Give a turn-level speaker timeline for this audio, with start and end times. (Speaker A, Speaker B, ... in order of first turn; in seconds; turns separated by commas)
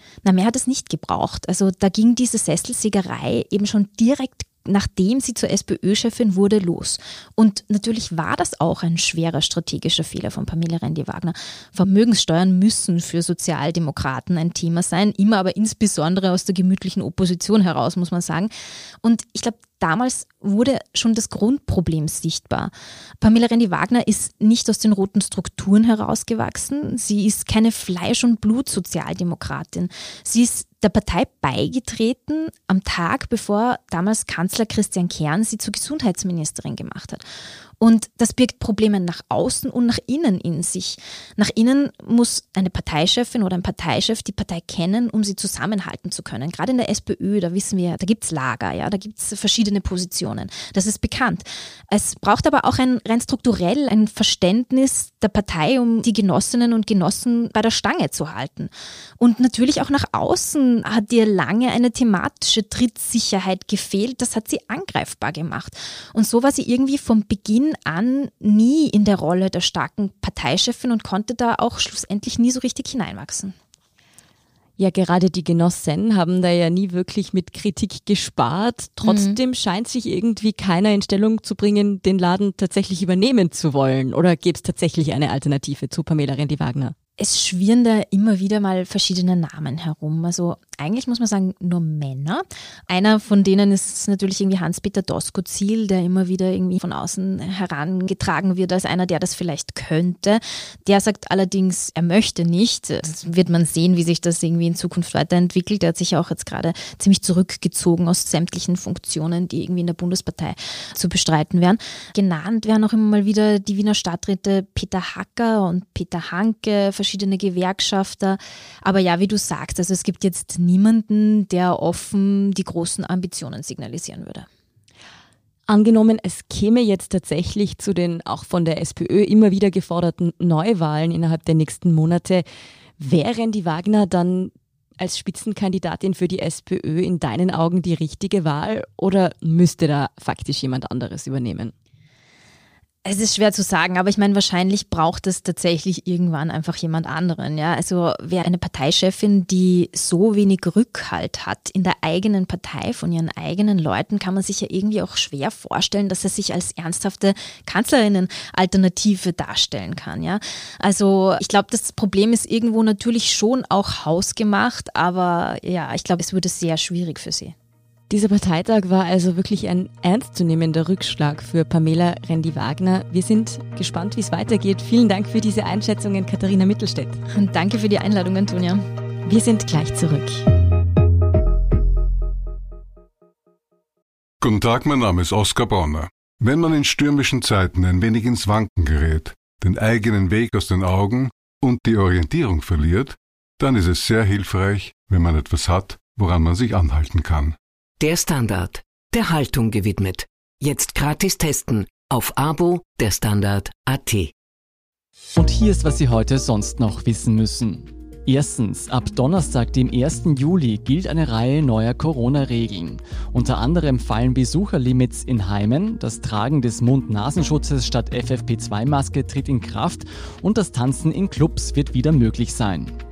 Speaker A: 0.2-18.5, Speaker A: 19.0-37.2, Speaker A: 37.8-73.5, Speaker B: 74.8-86.9, Speaker A: 79.1-79.4, Speaker A: 87.2-124.5, Speaker B: 125.7-132.4, Speaker B: 133.0-141.7, Speaker A: 143.1-167.5, Speaker B: 168.1-177.2, Speaker A: 177.3-178.8, Speaker B: 179.3-180.5, Speaker C: 184.4-197.6, Speaker D: 198.0-204.3, Speaker E: 205.4-222.9